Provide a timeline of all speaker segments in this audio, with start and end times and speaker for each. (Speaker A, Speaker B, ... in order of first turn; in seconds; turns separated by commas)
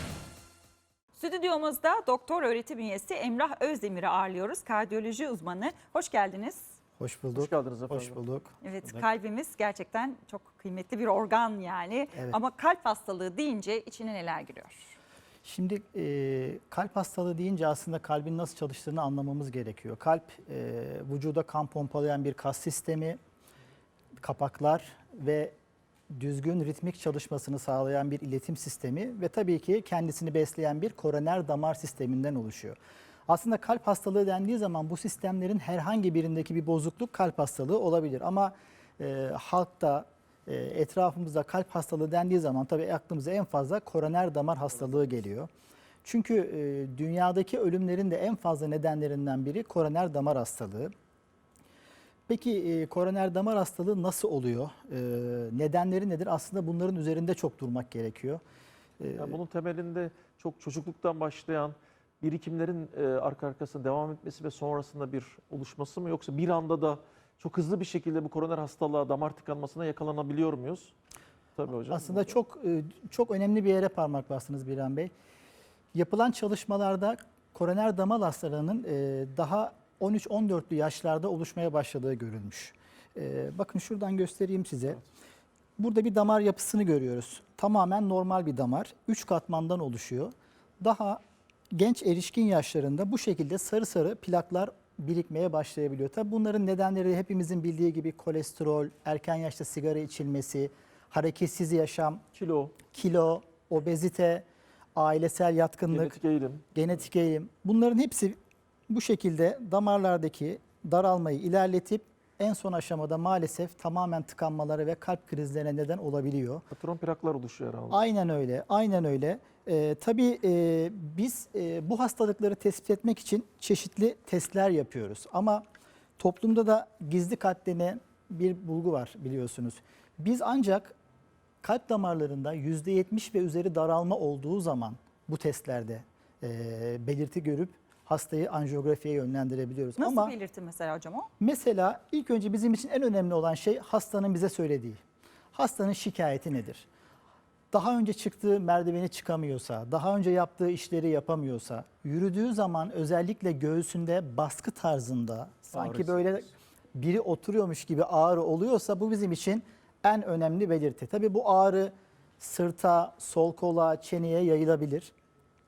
Speaker A: 1.1-6.7, Speaker B: 7.0-8.5, Speaker C: 7.3-8.2, Speaker A: 8.6-14.9, Speaker B: 15.4-23.2, Speaker B: 24.2-25.5, Speaker B: 26.1-32.8, Speaker B: 33.3-45.5, Speaker B: 46.0-50.9, Speaker B: 52.3-58.4, Speaker B: 59.0-59.4, Speaker C: 59.2-70.9, Speaker C: 71.5-72.4, Speaker B: 71.9-75.1, Speaker B: 75.9-85.0, Speaker B: 85.8-91.2, Speaker B: 91.7-102.2, Speaker C: 102.3-102.8, Speaker B: 102.9-106.2, Speaker C: 105.9-106.6, Speaker B: 106.7-108.4, Speaker B: 108.9-116.6, Speaker C: 116.7-118.0, Speaker B: 117.9-125.6, Speaker B: 126.2-130.9, Speaker B: 131.6-140.4, Speaker A: 140.0-141.3, Speaker B: 141.4-145.0, Speaker B: 145.5-146.9, Speaker B: 147.7-165.1, Speaker C: 155.7-156.5